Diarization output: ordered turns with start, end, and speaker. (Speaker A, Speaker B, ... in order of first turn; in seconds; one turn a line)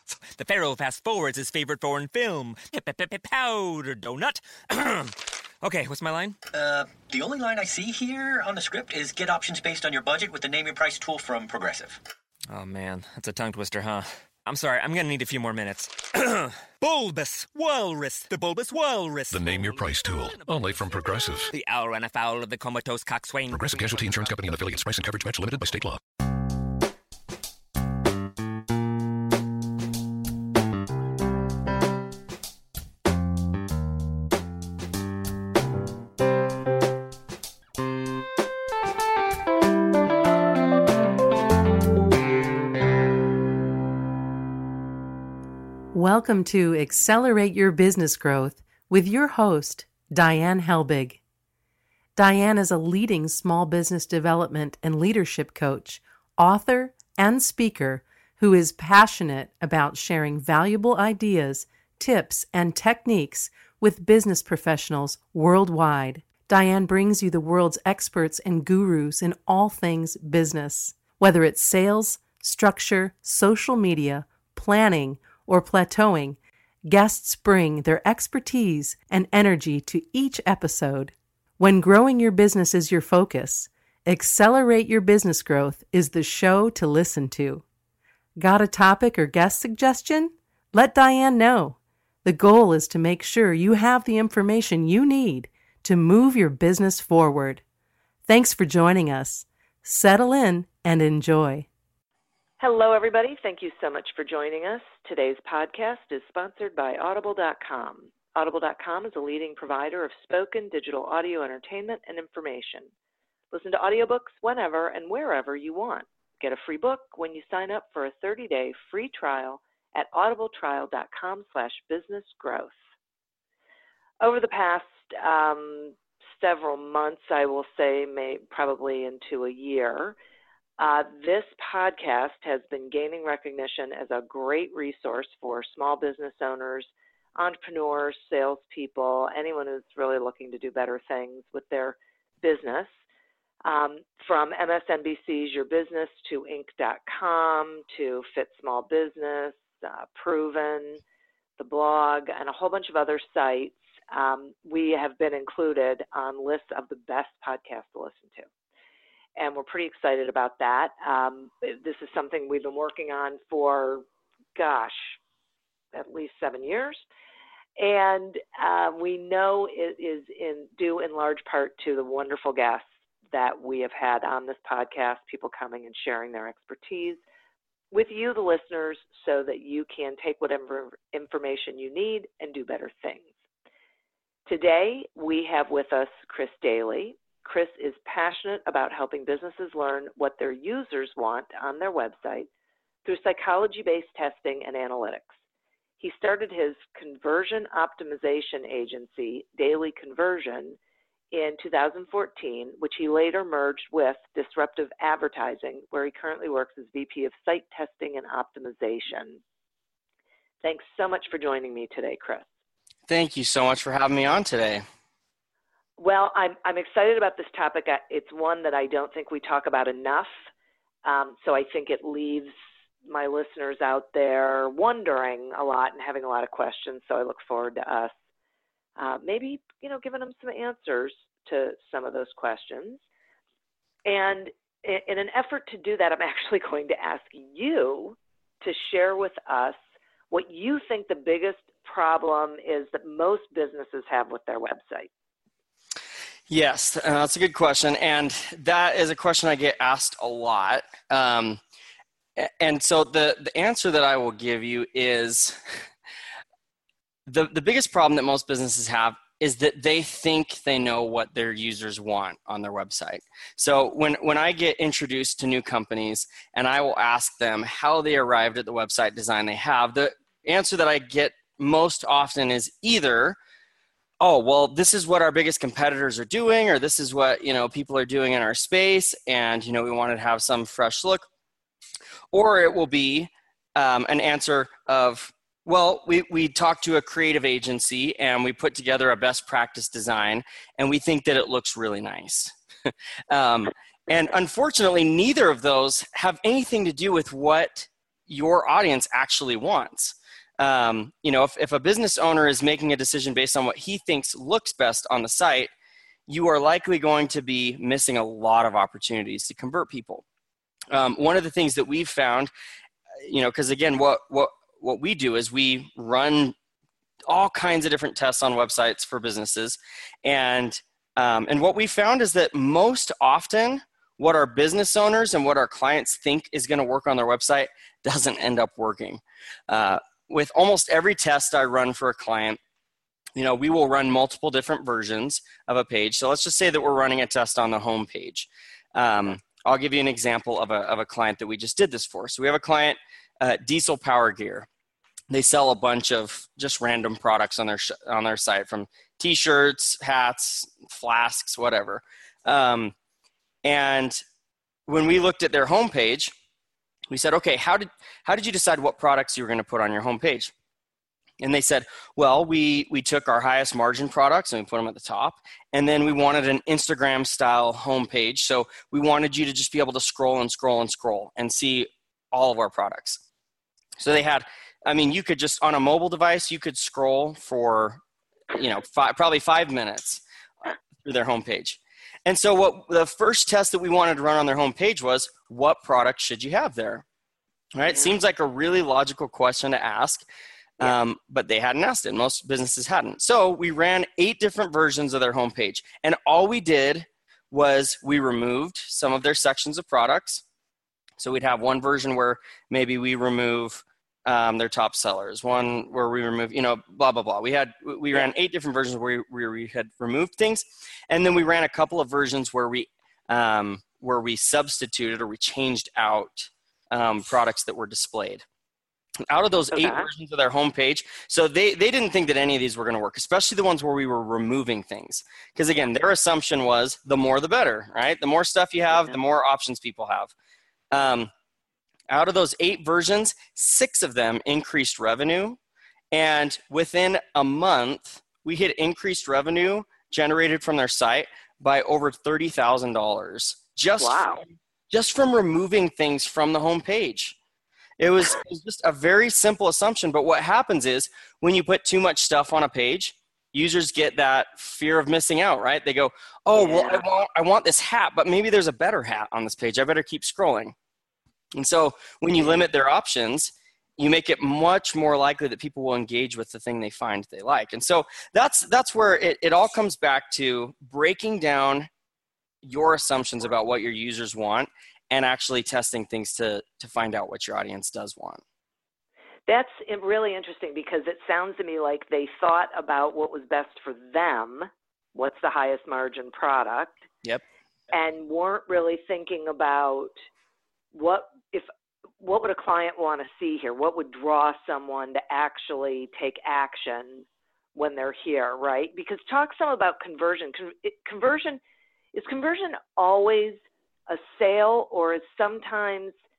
Speaker A: 0.3-6.4
Speaker B: 6.5-12.0
Speaker A: 12.5-20.9
Speaker C: 19.3-21.5
Speaker A: 21.5-24.3
Speaker C: 23.5-26.0
Speaker D: 45.9-51.2
Speaker D: 52.2-87.6
Speaker D: 88.4-97.6
Speaker D: 98.3-101.7
Speaker E: 102.6-112.9
Speaker E: 113.5-122.7
Speaker E: 124.2-130.2
Speaker E: 130.8-142.9
Speaker E: 143.7-151.0
Speaker E: 151.6-158.5
Speaker E: 159.4-164.1
Speaker E: 164.6-165.2
Speaker E: 165.9-167.0
Speaker E: 167.8-177.2
Speaker E: 177.9-183.3
Speaker E: 184.5-192.5
Speaker E: 193.1-195.3
Speaker E: 196.0-200.8
Speaker E: 201.3-209.4
Speaker E: 210.6-212.5
Speaker F: 213.1-214.8
Speaker E: 216.0-220.3
Speaker E: 221.1-222.5
Speaker E: 223.1-228.1
Speaker E: 229.0-233.0
Speaker E: 234.1-239.8
Speaker E: 240.3-245.1
Speaker F: 246.5-251.6
Speaker F: 252.4-255.6
Speaker F: 257.3-273.4
Speaker F: 274.2-281.3
Speaker F: 282.3-305.7
Speaker F: 306.3-310.2
Speaker F: 310.9-312.5
Speaker F: 313.2-316.6
Speaker F: 317.3-332.6
Speaker F: 333.4-344.7
Speaker F: 345.3-352.9
Speaker F: 353.6-354.2
Speaker F: 354.9-356.3
Speaker F: 357.1-360.5
Speaker F: 361.4-373.2
Speaker F: 374.0-378.0
Speaker F: 378.5-380.2
Speaker F: 381.0-387.0
Speaker F: 387.8-390.3
Speaker F: 390.8-400.4
Speaker F: 401.2-418.4
Speaker F: 419.3-430.3
Speaker E: 419.7-420.1
Speaker F: 430.9-431.3
Speaker F: 432.1-435.6
Speaker F: 436.1-447.4
Speaker E: 444.0-444.4
Speaker F: 448.0-460.8
Speaker E: 456.6-457.0
Speaker F: 461.6-471.9
Speaker F: 472.6-478.4
Speaker E: 479.5-487.0
Speaker E: 487.9-490.1
Speaker E: 490.9-491.7
Speaker E: 492.2-501.6
Speaker E: 502.1-506.1